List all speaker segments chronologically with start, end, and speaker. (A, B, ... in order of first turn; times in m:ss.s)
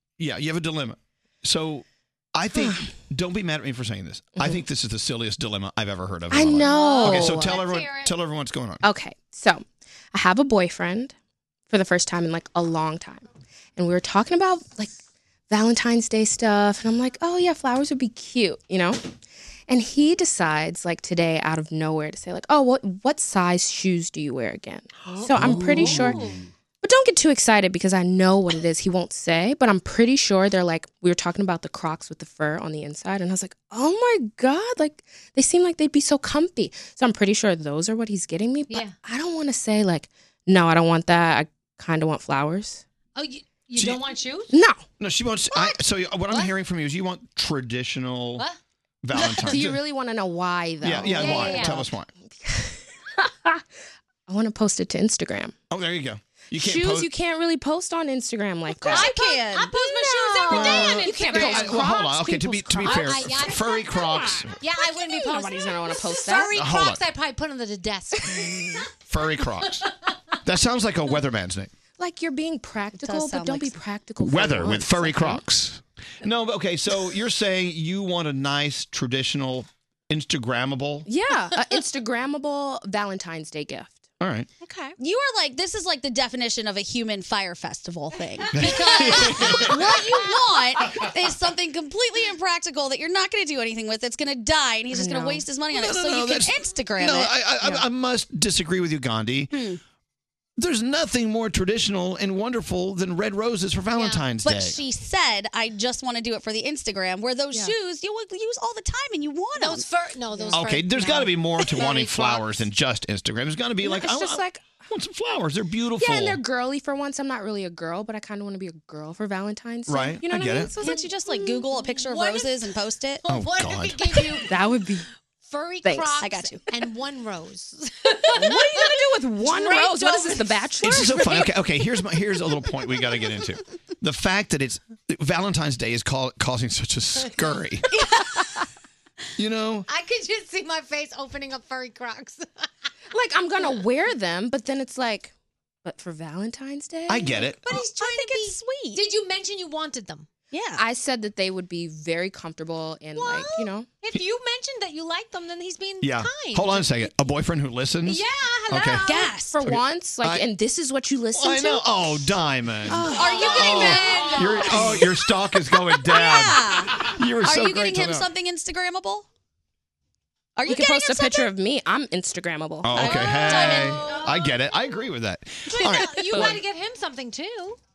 0:00.2-0:08.8 A
0:02.5-0:02.8 B
0:04.4-0:04.6 B
0:06.3-0:07.6 B
0:06.6-0:08.1 C
0:08.8-0:11.1 B
0:11.7-0:15.0 B
0:15.5-0:19.1 B
0:19.7-0:26.3 B
0:25.2-0:26.4 C
0:25.5-0:26.0 A
0:26.8-0:42.8 B
0:38.7-0:39.0 C
0:43.2-0:44.5 C
0:43.8-0:44.0 A
0:44.5-0:44.9 B
0:45.0-0:48.5 A
0:45.5-0:45.8 C
0:46.3-0:46.5 C
0:49.0-0:49.8 A
0:49.2-0:49.6 C
0:49.3-0:53.6 B
0:50.8-0:52.1 A
0:51.0-0:51.9 C
0:54.3-0:55.6 B
0:55.7-0:57.1 A
0:56.5-0:59.1 B
0:58.8-1:01.3 D
0:58.8-1:02.0 C
1:00.4-1:03.1 B
1:00.5-1:04.6 A
1:02.7-1:04.1 C
1:04.6-1:08.8 C
1:05.0-1:06.6 B
1:06.6-1:07.0 A
1:09.1-1:09.9 A
1:10.4-1:11.7 A
1:12.0-1:15.4 B
1:13.0-1:13.8 D
1:14.2-1:21.1 A
1:21.1-1:24.2 B
1:24.2-1:24.5 A
1:24.6-1:25.0 C
1:25.0-1:37.4 D
1:28.6-1:29.7 A
1:29.1-1:29.6 C
1:34.9-1:35.4 B
1:35.7-1:39.6 A
1:39.5-1:39.8 D
1:40.6-1:44.8 A
1:44.0-1:44.2 C
1:44.4-1:49.9 D
1:49.6-1:52.5 C
1:50.5-1:56.4 A
1:53.8-1:54.8 B
1:56.0-2:01.2 B
1:59.9-2:00.7 A
2:00.8-2:03.2 D
2:01.4-2:02.7 C
2:03.2-2:04.5 C
2:03.3-2:04.2 A
2:04.4-2:05.0 B
2:05.4-2:11.4 C
2:05.8-2:06.2 B
2:06.2-2:06.6 D
2:08.3-2:11.5 B
2:10.8-2:17.9 A
2:19.4-2:19.9 A
2:19.9-2:22.7 C
2:23.1-2:25.3 B
2:25.8-2:27.4 B
2:27.1-2:27.6 A
2:27.4-2:30.3 C
2:27.7-2:29.0 D
2:30.5-2:30.8 D
2:30.8-2:33.9 B
2:33.2-2:37.1 C
2:36.0-2:39.1 A
2:38.0-2:39.3 C
2:39.0-2:39.6 D
2:39.5-2:42.3 B
2:39.6-2:40.5 A
2:41.4-2:48.3 A
2:42.9-2:44.6 D
2:42.9-2:43.4 B
2:43.1-2:45.1 C
2:46.0-2:49.3 D
2:50.6-2:51.5 D
2:50.7-2:53.1 B
2:52.8-2:56.6 A
2:52.9-2:54.2 D
2:53.0-2:54.6 C
2:55.7-2:57.8 C
2:55.9-2:56.6 D